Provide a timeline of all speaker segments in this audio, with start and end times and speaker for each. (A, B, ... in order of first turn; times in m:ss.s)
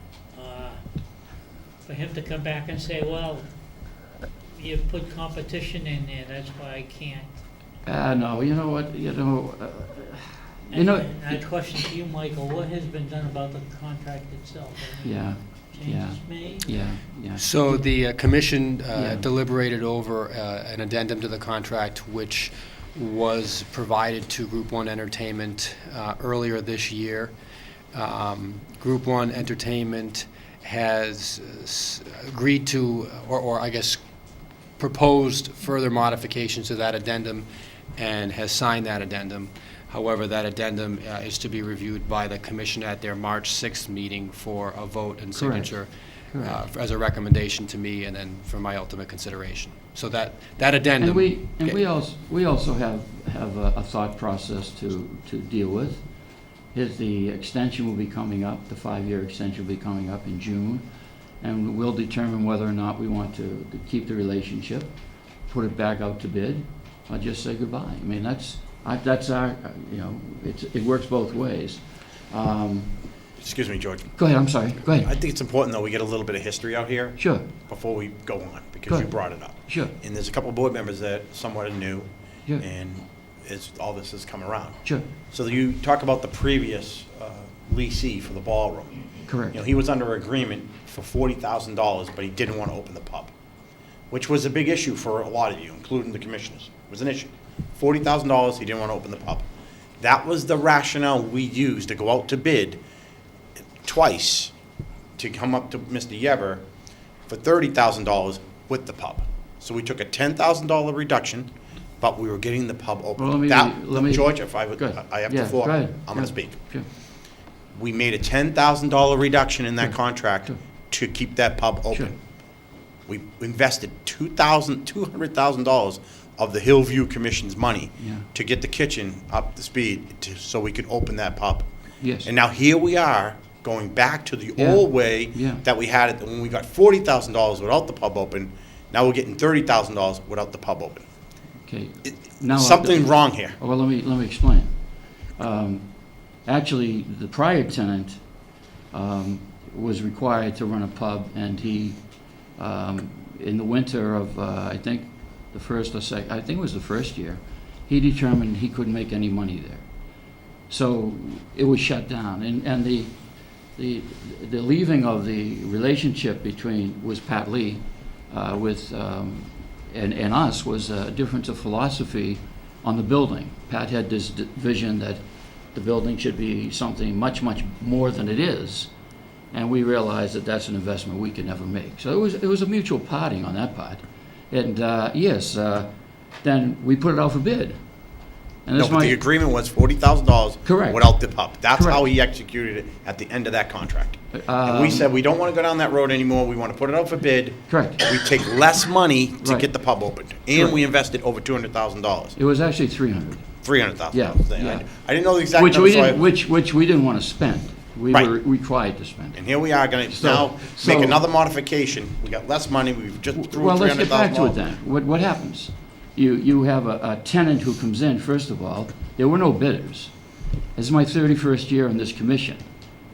0:00.3-0:00.8 A
0:01.9-0:03.5 A
0:04.5-0:07.3 A
0:07.9-0:11.4 B
0:10.7-0:16.7 A
0:15.0-0:17.8 B
0:17.4-0:27.3 C
0:18.9-0:19.3 B
0:27.9-0:34.0 C
0:34.8-0:51.8 C
0:45.4-0:45.8 B
0:46.3-0:46.6 B
0:51.0-0:56.0 B
0:56.7-1:00.8 B
1:01.4-1:04.9 B
1:05.5-1:12.9 B
1:13.4-1:14.1 D
1:14.2-1:15.1 B
1:14.9-1:22.1 D
1:17.2-1:17.5 B
1:18.9-1:19.9 B
1:22.6-1:24.8 D
1:25.3-1:33.3 D
1:29.3-1:29.6 B
1:34.1-1:39.5 D
1:40.0-1:42.8 D
1:43.8-1:44.5 D
1:45.2-1:46.6 D
1:47.3-1:56.6 D
1:53.2-1:56.9 B
1:57.8-2:02.1 D
1:59.8-2:00.6 B
2:03.1-2:11.7 D
2:08.0-2:08.3 B
2:12.0-2:12.3 B
2:12.2-2:21.0 D
2:14.6-2:15.6 B
2:21.6-2:24.7 B
2:22.5-2:23.6 D
2:25.4-2:25.9 B
2:26.4-2:28.2 B
2:28.9-2:32.0 B
2:32.6-2:39.8 B
2:40.7-2:43.1 B
2:43.8-2:55.2 B
2:55.7-2:58.9 B
2:59.5-3:05.9 B
3:06.4-3:07.8 B
3:08.7-3:09.2 B
3:08.8-3:22.4 D
3:10.6-3:12.0 B
3:14.3-3:15.1 B
3:17.7-3:18.0 B
3:19.4-3:19.7 B
3:22.4-3:23.4 B
3:23.6-3:26.2 D
3:24.1-3:24.8 B
3:25.5-3:29.4 B
3:29.3-3:34.6 D
3:30.1-3:31.2 B
3:33.4-3:40.1 B
3:40.8-3:42.6 B